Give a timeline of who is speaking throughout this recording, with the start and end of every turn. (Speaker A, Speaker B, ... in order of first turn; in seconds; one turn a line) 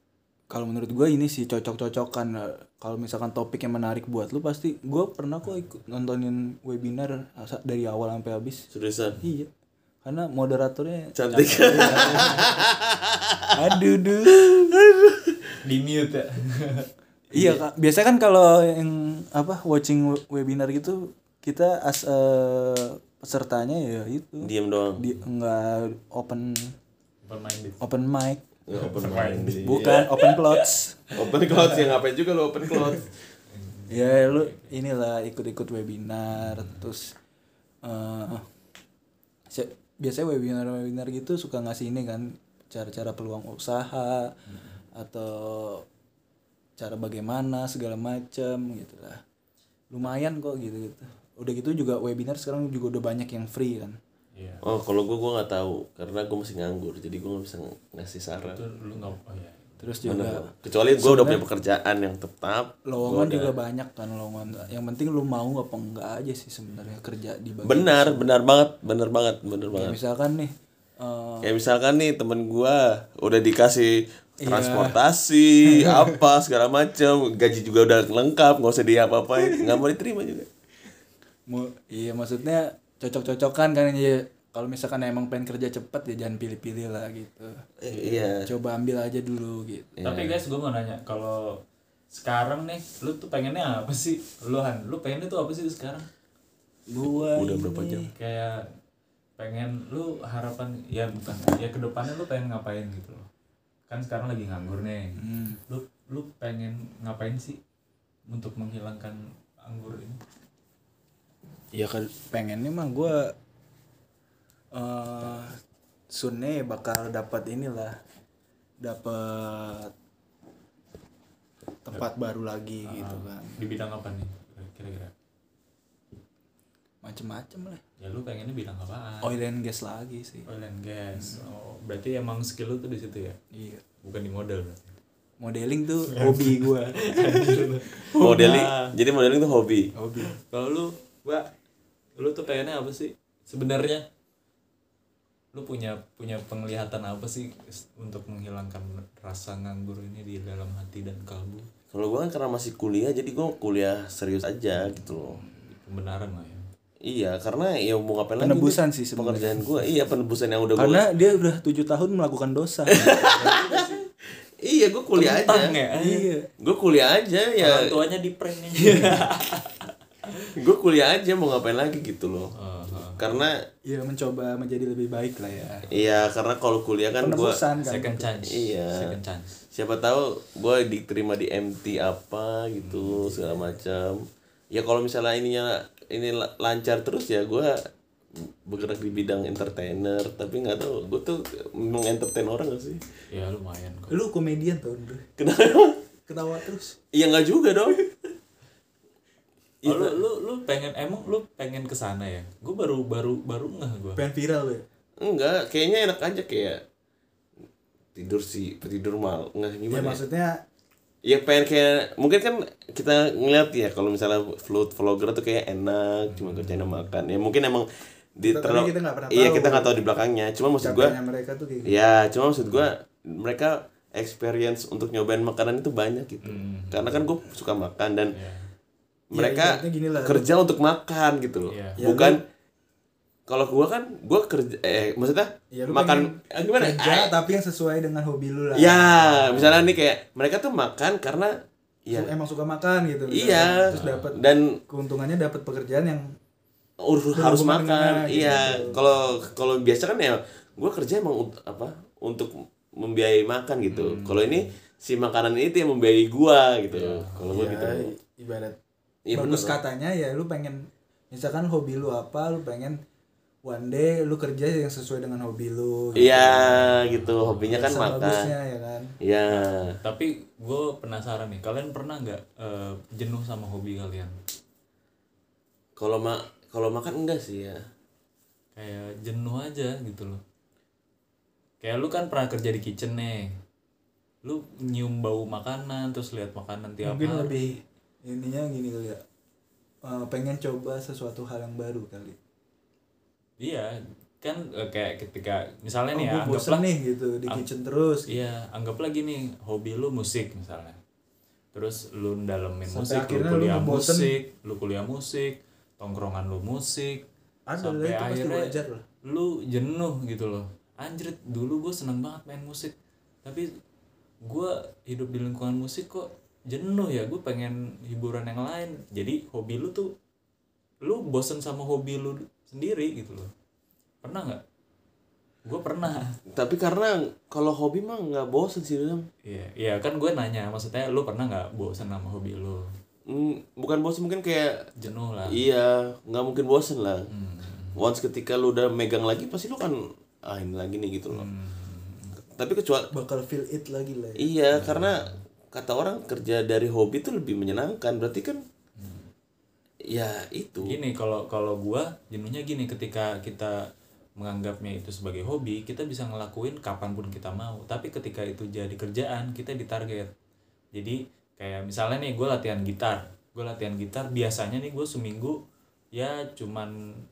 Speaker A: 0.5-8.7
Speaker B: 8.7-9.2
Speaker A: 9.2-9.5
Speaker A: 10.0-12.6
Speaker B: 11.2-15.6
Speaker C: 11.3-12.6
Speaker A: 13.5-14.5
Speaker C: 15.6-17.6
Speaker A: 17.3-26.8
Speaker B: 24.4-25.0
Speaker C: 27.2-27.8
Speaker A: 27.8-28.4
Speaker B: 28.7-30.1
Speaker C: 28.8-29.6
Speaker A: 29.4-31.0
Speaker C: 30.2-30.7
Speaker B: 31.1-33.1
Speaker C: 31.2-31.9
Speaker C: 33.5-34.7
Speaker A: 33.9-37.1
Speaker C: 36.3-36.8
Speaker A: 37.8-38.4
Speaker A: 39.5-44.4
Speaker C: 44.5-44.8
Speaker A: 44.9-45.9
Speaker A: 46.8-49.2
Speaker A: 49.9-54.0
Speaker C: 54.4-54.6
Speaker B: 54.6-58.6
Speaker C: 58.4-59.9
Speaker A: 59.8-60.5
Speaker B: 60.0-63.5
Speaker A: 61.0-61.4
Speaker A: 62.9-68.3
Speaker B: 67.6-70.0
Speaker A: 69.7-71.5
Speaker B: 71.4-80.5
Speaker A: 74.4-75.0
Speaker A: 75.6-76.2
Speaker A: 79.4-79.8
Speaker A: 81.5-89.9
Speaker B: 87.8-88.5
Speaker B: 90.0-90.4
Speaker C: 90.0-96.1
Speaker A: 96.9-98.1
Speaker B: 97.2-98.1
Speaker C: 98.2-98.7
Speaker C: 99.4-103.3
Speaker C: 103.9-107.6
Speaker A: 105.2-105.6
Speaker C: 108.3-110.2
Speaker A: 111.7-113.3
Speaker A: 114.7-115.6
Speaker A: 116.1-118.0
Speaker A: 118.8-119.9
Speaker A: 121.8-123.6
Speaker C: 122.8-125.1
Speaker A: 127.0-127.8
Speaker C: 128.0-129.3
Speaker A: 129.2-130.5
Speaker C: 130.5-133.4
Speaker A: 131.1-131.4
Speaker A: 133.5-133.8
Speaker C: 134.0-134.9
Speaker A: 135.4-138.7
Speaker C: 136.1-138.9
Speaker B: 138.2-139.9
Speaker A: 139.9-140.3
Speaker C: 140.2-141.5
Speaker C: 142.2-144.1
Speaker C: 145.5-151.7
Speaker B: 151.9-155.4
Speaker C: 155.3-156.7
Speaker B: 157.1-161.0
Speaker A: 158.4-159.6
Speaker A: 160.8-164.0
Speaker B: 162.9-165.8
Speaker C: 165.1-166.3
Speaker A: 165.9-166.5
Speaker B: 166.6-167.9
Speaker C: 167.6-170.5
Speaker B: 170.6-172.5
Speaker C: 172.6-173.4
Speaker B: 173.2-173.6
Speaker A: 173.9-175.9
Speaker B: 175.9-177.6
Speaker A: 177.2-178.3
Speaker C: 177.8-179.5
Speaker B: 178.4-179.2
Speaker B: 179.7-187.8
Speaker C: 182.8-183.6
Speaker B: 188.4-193.0
Speaker C: 193.3-194.1
Speaker A: 194.1-195.3
Speaker B: 195.4-196.0
Speaker A: 196.3-197.0
Speaker B: 197.1-198.3
Speaker B: 199.8-200.2
Speaker C: 199.8-204.2
Speaker A: 204.2-204.8
Speaker B: 205.2-206.8
Speaker B: 208.2-210.2
Speaker A: 209.9-210.6
Speaker B: 211.2-221.2
Speaker C: 216.3-217.1
Speaker A: 218.4-220.1
Speaker A: 220.8-221.9
Speaker B: 221.8-228.3
Speaker C: 222.6-222.9
Speaker C: 226.4-227.2
Speaker C: 228.3-228.7
Speaker B: 229.3-232.4
Speaker A: 229.3-230.5
Speaker C: 231.7-232.1
Speaker A: 232.0-232.4
Speaker B: 233.5-237.4
Speaker A: 235.7-239.1
Speaker B: 238.8-241.5
Speaker C: 239.2-240.0
Speaker B: 242.1-242.3
Speaker A: 242.1-246.3
Speaker B: 243.3-244.8
Speaker C: 243.9-244.3
Speaker B: 247.0-258.1
Speaker A: 247.4-249.0
Speaker C: 253.9-254.7
Speaker C: 256.9-257.5
Speaker A: 257.5-258.8
Speaker B: 259.3-259.8
Speaker A: 259.3-263.0
Speaker A: 263.6-266.7
Speaker C: 266.1-267.9
Speaker B: 266.2-268.5
Speaker A: 267.7-269.1
Speaker B: 269.2-270.0
Speaker C: 269.5-274.4
Speaker B: 276.0-277.8
Speaker C: 278.8-280.4
Speaker C: 281.8-283.6
Speaker C: 284.4-287.7
Speaker A: 287.0-289.2
Speaker A: 290.0-292.4
Speaker C: 293.6-296.9
Speaker A: 296.1-298.3
Speaker C: 298.3-301.0
Speaker C: 301.7-307.2
Speaker A: 302.9-304.4
Speaker A: 307.7-309.0
Speaker C: 307.8-313.7
Speaker C: 314.5-320.1
Speaker C: 321.0-323.5
Speaker C: 324.2-324.6
Speaker C: 325.7-326.4
Speaker B: 326.5-329.3
Speaker C: 329.4-332.9
Speaker B: 333.3-334.9
Speaker C: 335.0-335.6
Speaker B: 335.5-337.3
Speaker C: 337.3-338.0
Speaker B: 338.0-341.5
Speaker C: 341.3-342.4
Speaker B: 342.6-343.1
Speaker A: 343.1-344.5
Speaker B: 344.4-348.6
Speaker C: 344.7-345.4
Speaker C: 349.0-349.3
Speaker B: 350.1-351.0
Speaker C: 350.8-360.3
Speaker C: 360.9-365.6
Speaker C: 366.1-366.9